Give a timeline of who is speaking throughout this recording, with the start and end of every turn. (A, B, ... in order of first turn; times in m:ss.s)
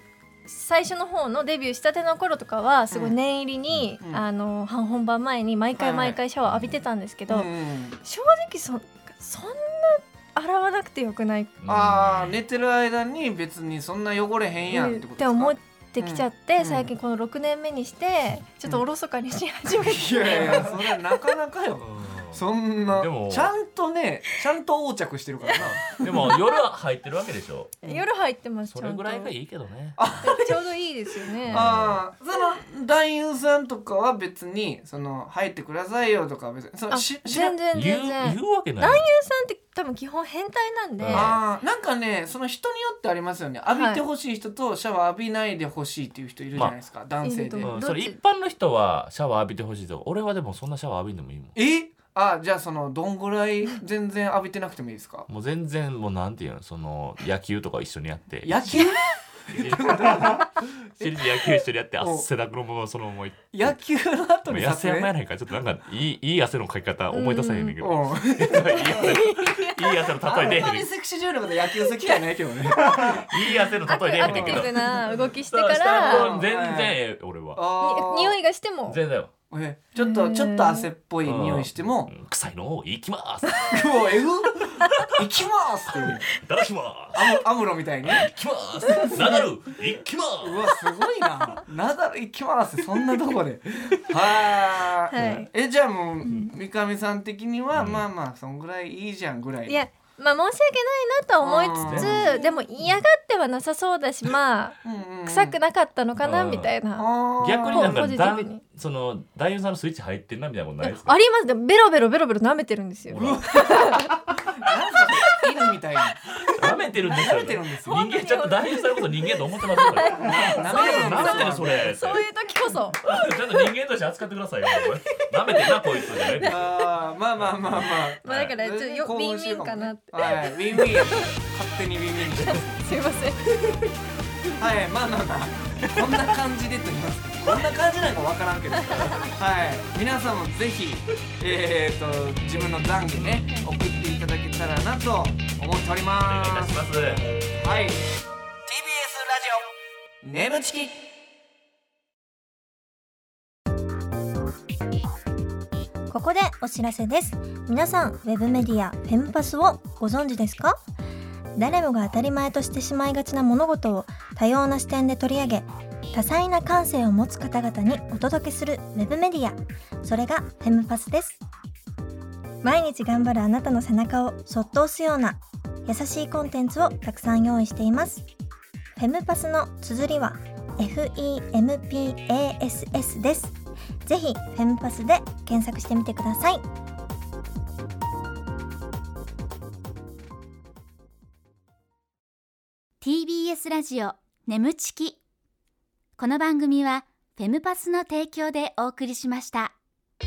0:00.5-0:07.5 A
0:05.8-0:06.2 B
0:06.4-0:06.8 C
0:07.3-0:08.0 B
0:08.0-0:11.5 A
0:11.6-0:12.4 C
0:11.7-0:16.9 B
0:14.7-0:21.2 A
0:19.8-0:26.3 B
0:21.8-0:23.5 C
0:25.6-0:27.8 C
0:26.0-0:26.3 A
0:27.8-0:29.3 A
0:28.7-0:30.0 C
0:30.0-0:30.6 B
0:30.2-0:31.8 A
0:31.4-0:32.0 C
0:31.5-0:37.6 B
0:36.9-0:41.4 A
0:37.7-0:39.0 C
0:41.0-0:41.4 C
0:41.1-0:47.7 B
0:43.7-0:44.0 A
0:47.2-0:48.2 A
0:47.6-0:51.6 C
0:51.6-0:55.3 B
0:55.3-0:58.8 C
0:58.4-1:01.2 B
0:59.5-1:03.7 C
1:02.0-1:02.2 B
1:03.5-1:05.1 B
1:04.5-1:10.9 C
1:07.1-1:07.8 A
1:07.8-1:09.1 B
1:08.7-1:10.0 A
1:10.2-1:13.3 B
1:12.8-1:17.6 C
1:13.8-1:16.4 A
1:14.2-1:14.6 B
1:16.0-1:17.0 B
1:17.5-1:18.4 B
1:17.8-1:19.0 A
1:18.9-1:19.3 C
1:19.5-1:22.1 B
1:20.0-1:20.9 A
1:21.2-1:23.8 C
1:23.7-1:26.3 B
1:26.2-1:27.2 C
1:27.1-1:28.3 B
1:28.0-1:30.7 C
1:28.9-1:29.4 B
1:30.4-1:39.8 B
1:35.1-1:35.5 A
1:36.2-1:36.5 A
1:37.7-1:38.0 C
1:39.7-1:48.6 A
1:41.4-1:42.6 B
1:41.8-1:42.4 C
1:44.8-1:45.5 B
1:46.2-1:46.7 C
1:47.0-1:48.2 B
1:47.4-1:51.1 C
1:50.8-1:54.2 A
1:53.1-1:53.6 C
1:53.2-1:58.0 B
1:56.5-2:02.2 C
1:57.8-2:03.7 A
2:00.2-2:01.9 B
2:03.0-2:06.7 C
2:04.8-2:06.7 A
2:06.4-2:12.8 B
2:07.4-2:08.5 C
2:08.2-2:11.3 A
2:12.4-2:13.5 A
2:14.6-2:28.0 B
2:18.9-2:19.3 A
2:26.2-2:27.2 C
2:28.6-2:29.7 B
2:30.2-2:31.0 B
2:36.1-2:40.8 D
2:41.6-2:51.4 D
2:52.6-2:58.2 D
2:59.0-3:06.6 D
3:13.0-3:15.2 E
3:16.2-3:19.7 E